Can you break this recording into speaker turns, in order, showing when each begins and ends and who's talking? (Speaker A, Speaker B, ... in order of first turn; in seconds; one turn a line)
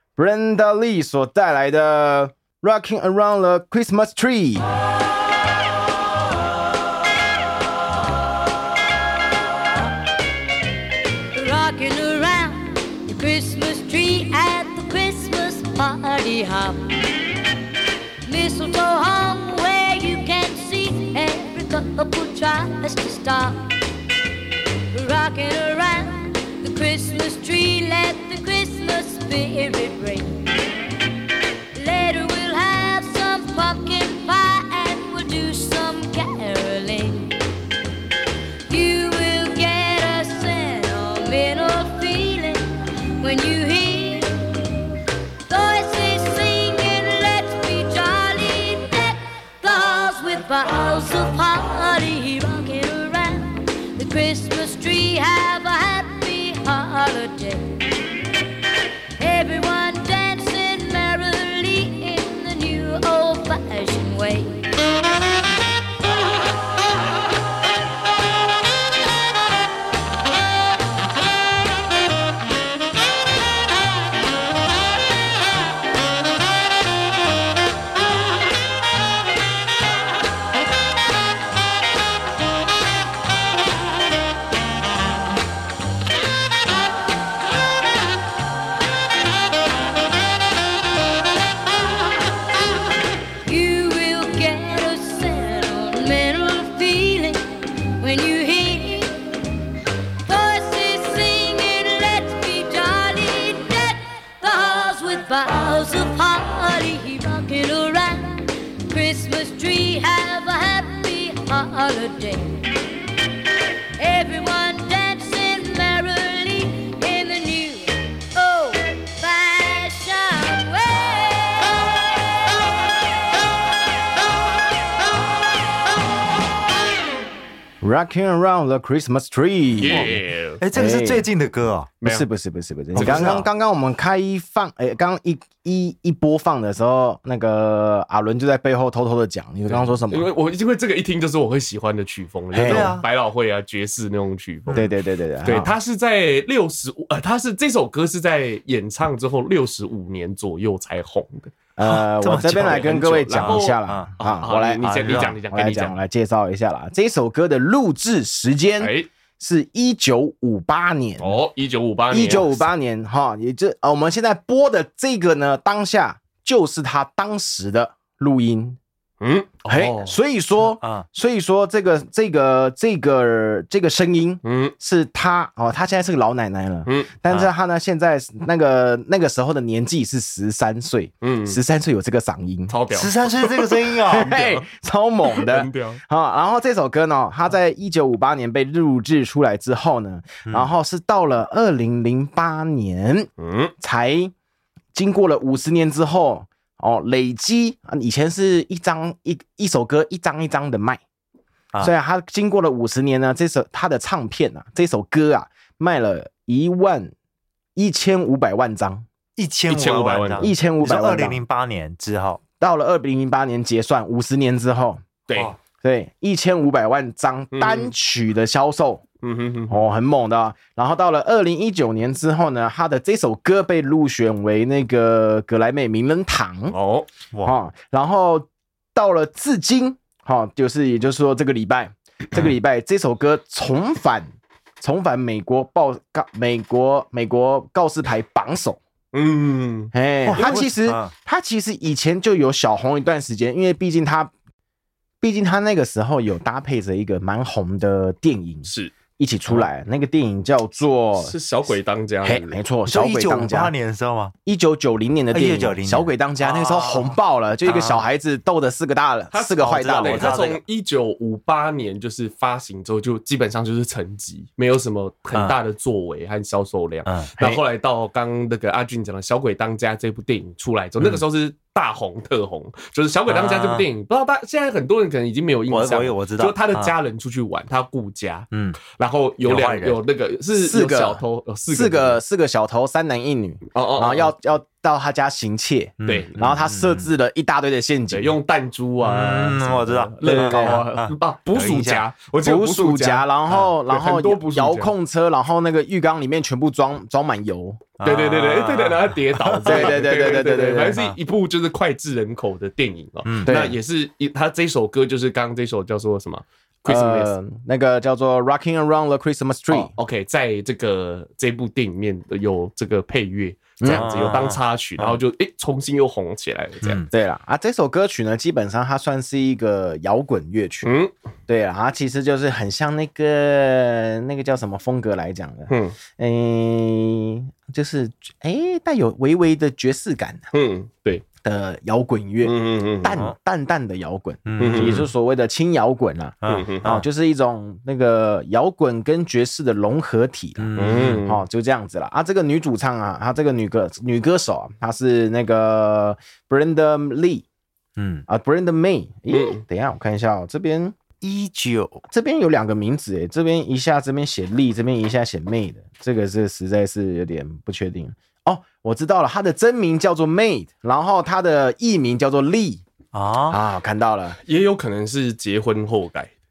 Speaker A: 0.1-4.6
Speaker B: 11.3-17.0
Speaker B: 18.2-23.7
Speaker B: 24.9-30.6
Speaker B: 31.7-37.4
Speaker B: 38.7-44.9
Speaker B: 45.5-57.9
Speaker B: 59.2-64.7
Speaker B: 93.4-99.5
Speaker B: 100.2-112.7
Speaker B: 114.0-122.1
Speaker A: 127.8-130.2
Speaker C: 129.8-130.6
Speaker D: 130.6-131.9
Speaker A: 130.7-131.3
Speaker C: 132.0-132.2
Speaker A: 132.0-140.3
Speaker C: 132.9-133.4
Speaker D: 132.9-133.4
Speaker C: 139.7-144.8
Speaker A: 142.5-142.9
Speaker D: 142.6-143.0
Speaker A: 144.7-145.7
Speaker C: 145.4-151.5
Speaker A: 151.8-161.3
Speaker D: 151.8-154.1
Speaker C: 152.6-155.9
Speaker D: 154.8-155.3
Speaker C: 158.8-159.1
Speaker C: 161.2-162.7
Speaker A: 162.1-168.8
Speaker C: 169.2-170.2
Speaker A: 169.7-182.7
Speaker C: 174.4-174.7
Speaker C: 176.8-177.1
Speaker C: 181.2-181.6
Speaker C: 182.7-184.7
Speaker D: 182.9-184.3
Speaker A: 184.1-194.3
Speaker C: 185.3-186.0
Speaker C: 193.4-193.7
Speaker A: 194.9-201.0
Speaker A: 201.8-207.1
Speaker A: 207.8-209.0
Speaker D: 209.4-212.4
Speaker C: 209.7-210.5
Speaker A: 210.4-211.4
Speaker A: 212.6-215.0
Speaker C: 215.3-215.5
Speaker A: 215.8-219.0
Speaker C: 217.5-217.9
Speaker C: 219.2-219.8
Speaker A: 219.7-226.7
Speaker C: 226.7-227.1
Speaker A: 227.4-238.8
Speaker C: 239.1-240.6
Speaker A: 239.9-244.3
Speaker D: 240.2-241.1
Speaker A: 245.2-251.3
Speaker C: 248.7-248.9
Speaker C: 251.2-252.6
Speaker A: 252.2-253.7
Speaker D: 252.9-254.3
Speaker A: 254.4-260.4
Speaker D: 255.3-258.0
Speaker C: 259.3-282.2
Speaker D: 259.6-260.6
Speaker D: 267.1-267.3
Speaker D: 273.3-273.9
Speaker D: 275.7-276.9
Speaker D: 278.5-278.8
Speaker D: 279.4-280.0
Speaker A: 280.6-288.3
Speaker C: 283.7-284.3
Speaker D: 286.0-287.1
Speaker C: 286.0-286.3
Speaker C: 288.1-293.3
Speaker D: 289.0-292.0
Speaker A: 290.2-290.8
Speaker A: 292.4-297.9
Speaker C: 293.9-294.9
Speaker D: 298.0-299.9
Speaker C: 298.0-307.3
Speaker A: 299.6-301.0
Speaker A: 303.4-303.8
Speaker A: 306.9-309.9
Speaker C: 309.7-317.1
Speaker A: 313.8-314.1
Speaker D: 313.9-314.6
Speaker A: 317.1-320.9
Speaker C: 320.8-321.1
Speaker A: 321.5-330.5
Speaker C: 325.7-326.0
Speaker C: 330.5-331.2
Speaker A: 331.4-347.4
Speaker C: 332.4-333.1
Speaker D: 334.4-335.1
Speaker C: 334.6-335.0
Speaker D: 336.4-337.0
Speaker C: 336.5-336.9
Speaker D: 340.6-341.2
Speaker C: 340.8-341.4
Speaker D: 348.0-348.2
Speaker A: 348.3-351.0
Speaker C: 349.3-349.6
Speaker D: 351.2-352.0
Speaker A: 352.1-362.8
Speaker D: 363.1-363.6
Speaker A: 363.5-364.4
Speaker C: 364.4-366.3